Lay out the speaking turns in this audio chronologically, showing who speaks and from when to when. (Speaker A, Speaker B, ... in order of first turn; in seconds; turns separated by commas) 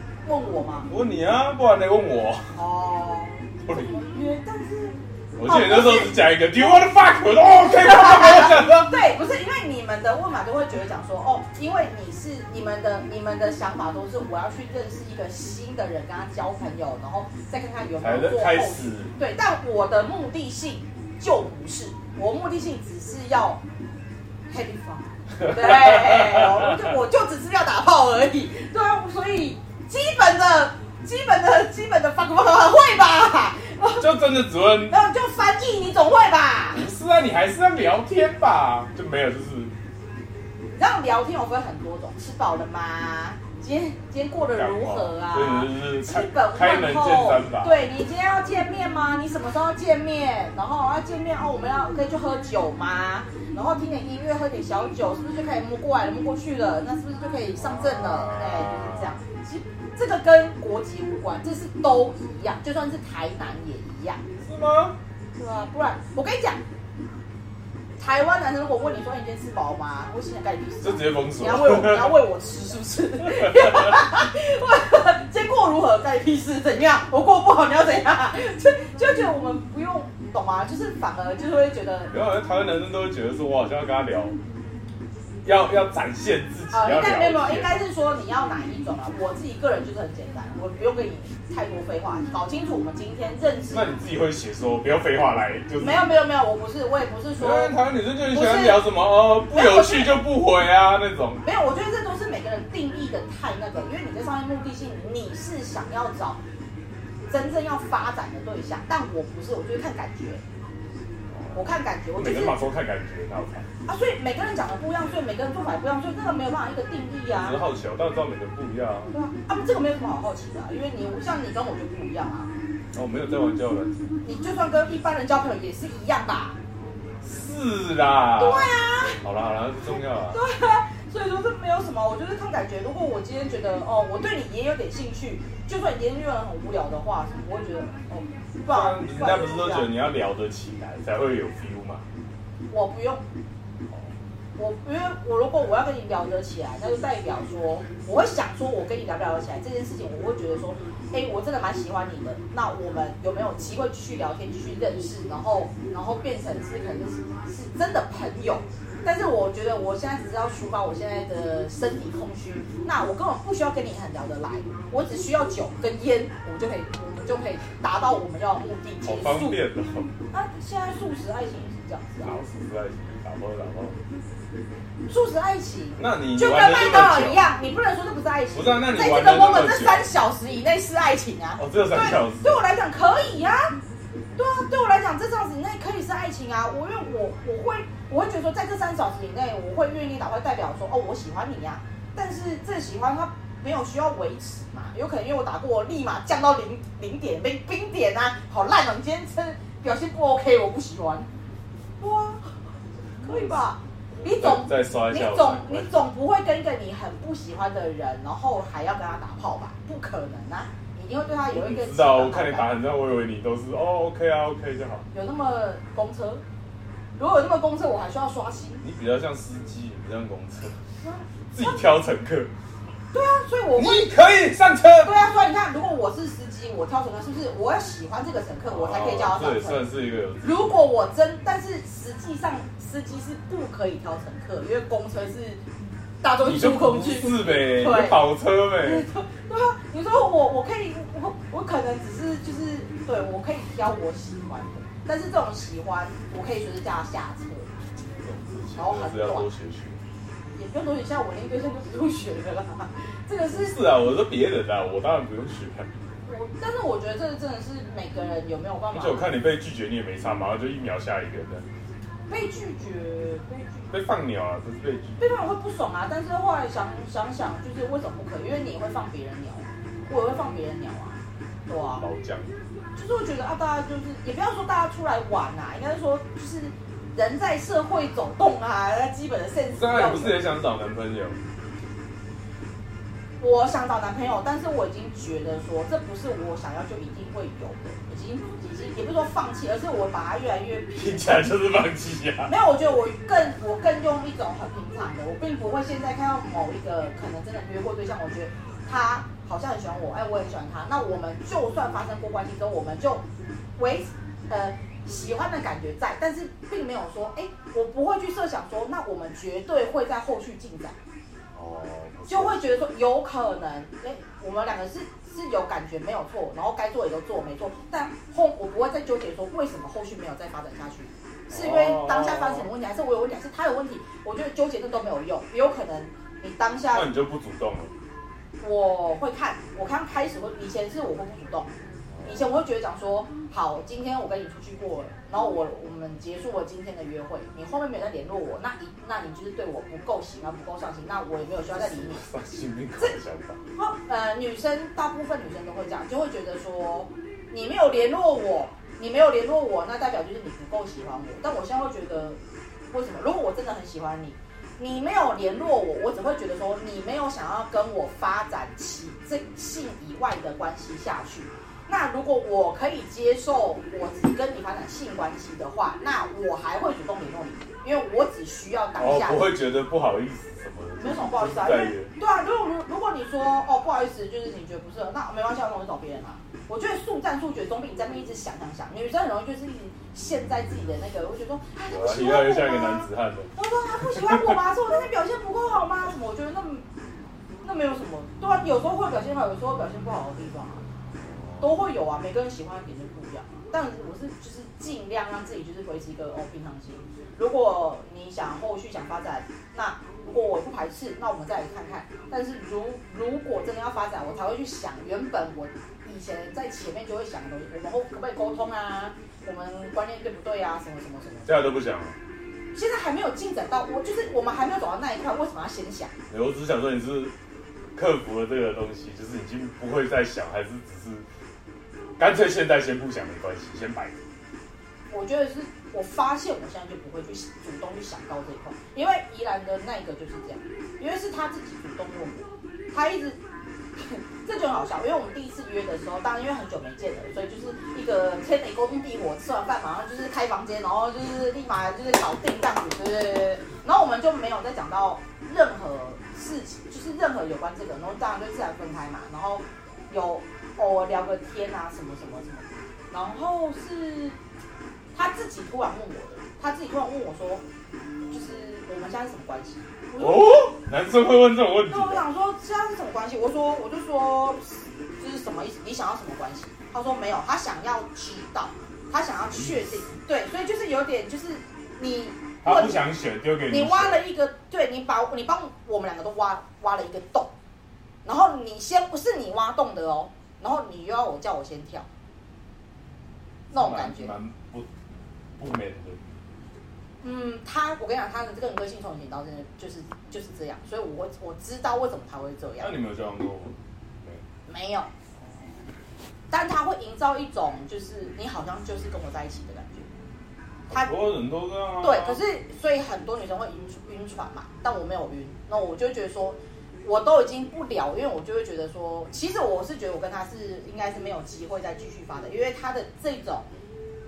Speaker A: 0.2-0.9, Speaker B: 0.9-2.6, Speaker A: 2.5-6.8, Speaker B: 3.6-3.9, Speaker B: 5.4-9.0, Speaker A: 7.5-23.6, Speaker B: 18.0-19.1, Speaker A: 24.5-34.1, Speaker B: 25.4-26.7, Speaker B: 34.0-35.0, Speaker A: 34.9-36.9, Speaker B: 36.7-39.7, Speaker A: 40.7-64.2, Speaker B: 44.5-47.8, Speaker B: 57.6-59.1, Speaker B: 64.4-65.0, Speaker A: 65.3-66.6, Speaker A: 68.0-82.1, Speaker B: 70.8-72.2, Speaker B: 73.3-74.0, Speaker B: 82.1-84.4, Speaker B: 85.4-87.8, Speaker A: 86.7-94.0, Speaker B: 93.7-96.1, Speaker A: 95.8-97.8, Speaker B: 97.4-101.4, Speaker A: 98.3-98.9, Speaker A: 99.5-100.2, Speaker A: 101.4-106.4, Speaker A: 107.3-110.4, Speaker B: 111.3-113.7, Speaker A: 111.5-112.6, Speaker A: 113.8-117.6, Speaker B: 117.4-119.1, Speaker A: 119.1-122.5, Speaker B: 122.9-124.0, Speaker A: 124.2-126.6, Speaker B: 127.2-130.4, Speaker A: 128.4-129.2, Speaker A: 130.3-139.9, Speaker B: 138.7-142.0, Speaker A: 142.7-143.2, Speaker A: 144.6-169.6, Speaker B: 169.0-170.1, Speaker A: 170.3-172.3, Speaker B: 172.2-174.0, Speaker A: 175.1-183.7, Speaker B: 176.0-177.5, Speaker B: 178.5-180.1, Speaker B: 181.6-182.6, Speaker A: 184.4-201.3, Speaker A: 202.0-202.6, Speaker A: 203.2-212.7, Speaker B: 203.2-203.6, Speaker B: 204.1-205.9, Speaker B: 211.5-215.0, Speaker A: 215.1-216.4, Speaker A: 217.2-218.8, Speaker B: 218.8-220.8, Speaker A: 221.0-221.8, Speaker B: 221.5-222.5, Speaker A: 223.1-224.1, Speaker B: 223.8-225.1, Speaker A: 225.0-229.8, Speaker B: 228.7-230.7, Speaker A: 230.4-235.6, Speaker A: 236.2-247.7, Speaker B: 236.4-239.1, Speaker B: 248.2-250.0, Speaker A: 248.8-249.5, Speaker A: 250.5-253.8, Speaker B: 253.5-255.9, Speaker A: 256.2-259.3, Speaker B: 258.9-261.6, Speaker A: 262.3-263.9, Speaker B: 263.9-265.2, Speaker A: 265.2-272.0, Speaker B: 272.0-272.5, Speaker A: 272.9-280.4, Speaker B: 279.7-281.4, Speaker A: 283.4-291.5, Speaker B: 291.0-292.5, Speaker A: 292.4-303.2, Speaker A: 303.8-310.9, Speaker B: 311.5-312.6, Speaker A: 312.3-327.1, Speaker B: 321.5-322.7, Speaker B: 326.9-327.9, Speaker A: 328.6-331.7, Speaker B: 332.1-332.5, Speaker A: 332.2-342.2, Speaker B: 341.7-343.6, Speaker A: 343.8-352.4, Speaker A: 352.9-369.5, Speaker B: 369.0-372.1, Speaker A: 370.9-386.8, Speaker B: 381.8-383.5, Speaker B: 384.1-384.5, Speaker A: 387.6-390.8, Speaker B: 391.2-391.7, Speaker A: 391.6-411.6, Speaker B: 411.4-412.2, Speaker A: 412.7-416.1, Speaker B: 416.3-417.3, Speaker B: 417.9-421.3, Speaker B: 422.2-424.2, Speaker A: 425.1-433.4, Speaker A: 434.0-454.4, Speaker A: 455.1-457.6, Speaker A: 458.3-460.7, Speaker B: 460.2-462.2, Speaker A: 461.9-473.0, Speaker B: 469.5-469.8, Speaker B: 472.6-474.2, Speaker A: 473.7-477.5, Speaker A: 478.2-482.1, Speaker B: 483.7-484.9, Speaker A: 483.7-484.3, Speaker B: 485.6-486.3, Speaker A: 487.2-492.9, Speaker B: 492.8-494.4, Speaker A: 494.6-495.1, Speaker A: 496.5-500.1, Speaker B: 500.9-502.4, Speaker A: 500.9-501.1, Speaker A: 502.0-513.7